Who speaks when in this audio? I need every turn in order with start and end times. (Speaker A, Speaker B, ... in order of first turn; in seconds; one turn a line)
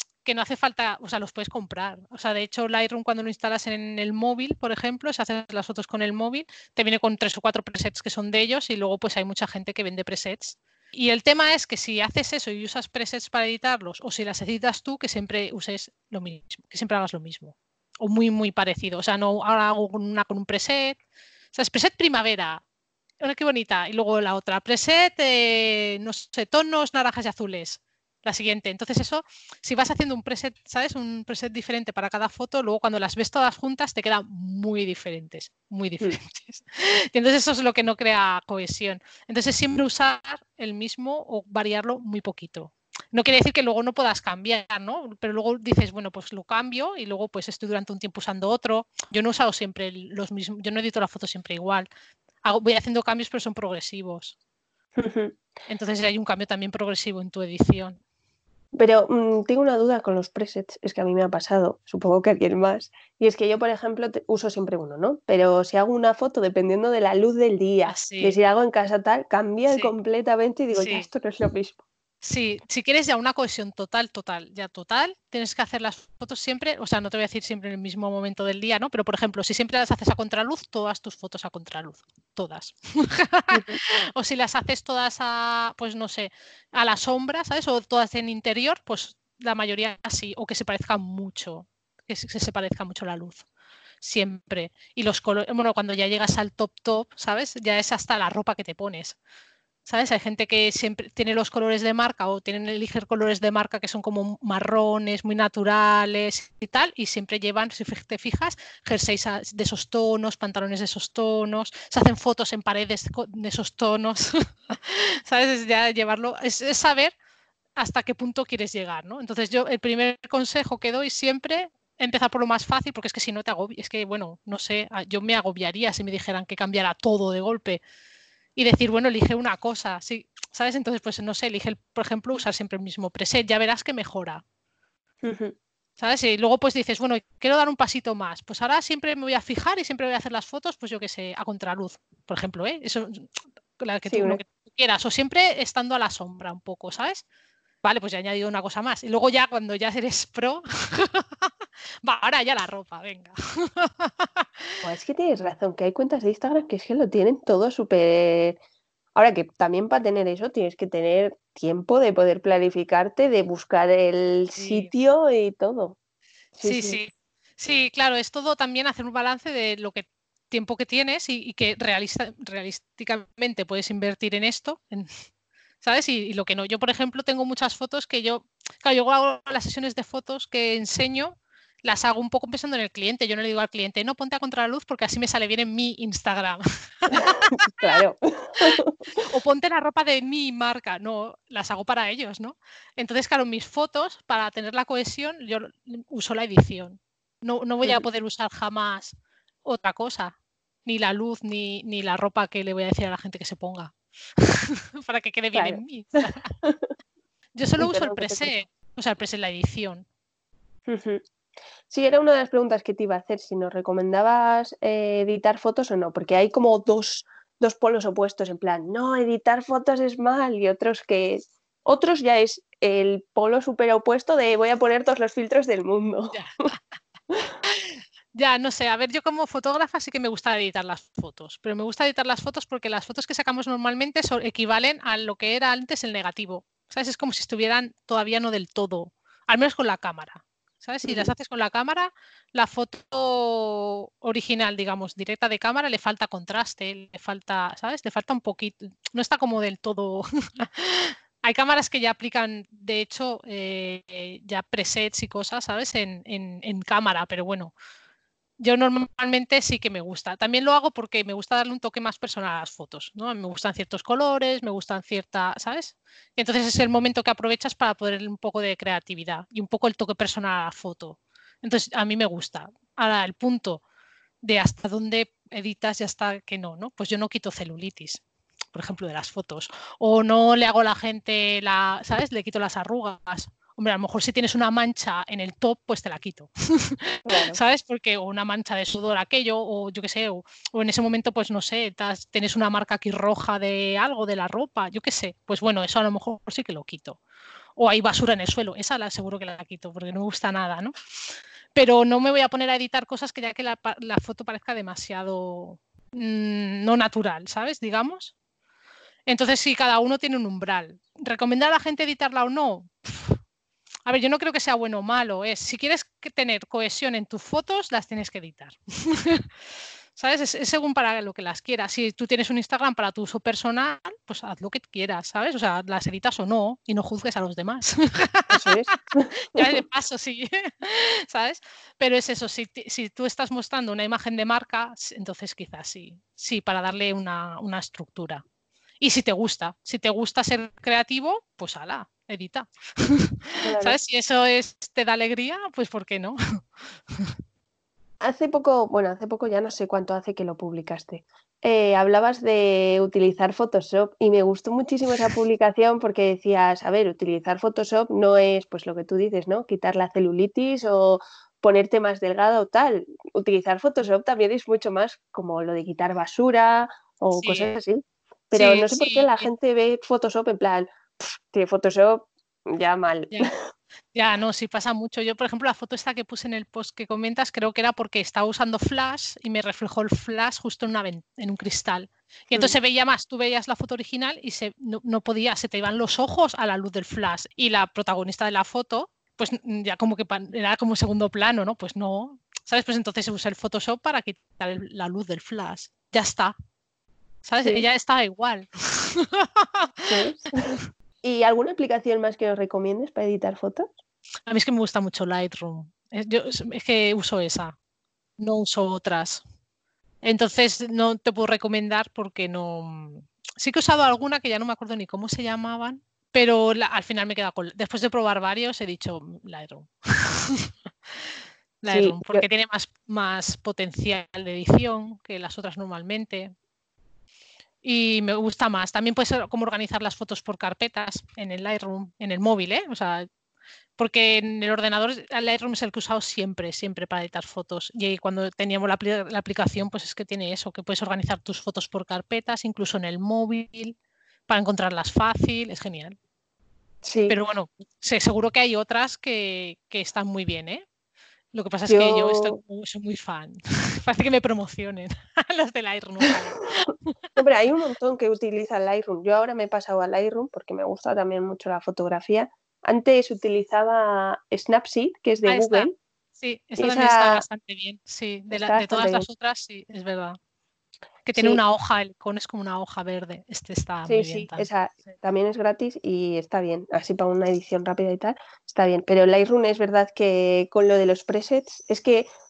Speaker A: 0.2-21.0
Speaker A: 21.5-22.6
Speaker A: 23.2-51.9
Speaker A: 52.4-54.3
Speaker B: 55.0-55.4
Speaker A: 55.7-58.0
Speaker B: 58.7-71.8
Speaker A: 67.8-68.4
Speaker A: 70.7-71.1
Speaker A: 72.2-93.4
Speaker B: 83.5-83.8
Speaker A: 94.0-99.2
Speaker A: 99.8-117.1
Speaker A: 117.8-127.8
Speaker A: 128.6-134.4
Speaker B: 135.2-135.5
Speaker A: 136.0-147.2
Speaker B: 144.1-144.4
Speaker A: 147.8-151.5
Speaker A: 152.0-154.5
Speaker B: 154.8-158.6
Speaker B: 159.1-166.0
Speaker A: 164.6-164.9
Speaker B: 166.6-167.0
Speaker A: 166.6-175.1
Speaker A: 175.8-187.7
Speaker B: 187.1-189.0
Speaker A: 189.1-206.5
Speaker B: 205.5-205.8
Speaker A: 207.6-210.1
Speaker B: 207.8-208.5
Speaker B: 210.9-211.2
Speaker B: 211.9-226.4
Speaker A: 227.7-257.7
Speaker B: 241.0-241.3
Speaker A: 258.6-273.8
Speaker A: 274.4-278.2
Speaker A: 278.7-297.2
Speaker B: 287.2-287.6
Speaker A: 297.8-300.9
Speaker A: 301.7-308.3
Speaker A: 309.3-313.4
Speaker A: 314.1-319.5
Speaker A: 320.1-338.4
Speaker B: 328.5-329.8
Speaker A: 339.0-346.4
Speaker B: 343.6-344.0
Speaker B: 348.2-373.5
Speaker A: 367.3-367.7
Speaker A: 368.5-369.5
Speaker A: 374.1-396.5
Speaker A: 397.4-400.1
Speaker B: 400.1-400.7
Speaker B: 401.2-403.9
Speaker A: 404.5-407.8
Speaker A: 408.4-409.4
Speaker A: 410.2-426.5
Speaker B: 421.9-422.4
Speaker A: 427.8-433.3
Speaker A: 434.0-443.9
Speaker A: 444.5-446.2
Speaker B: 447.0-447.4
Speaker A: 447.3-450.8
Speaker A: 451.5-457.1
Speaker B: 451.9-452.5
Speaker B: 457.4-465.9
Speaker A: 465.4-470.4
Speaker B: 466.8-467.4
Speaker B: 468.5-469.2
Speaker A: 471.2-474.7
Speaker B: 474.1-482.3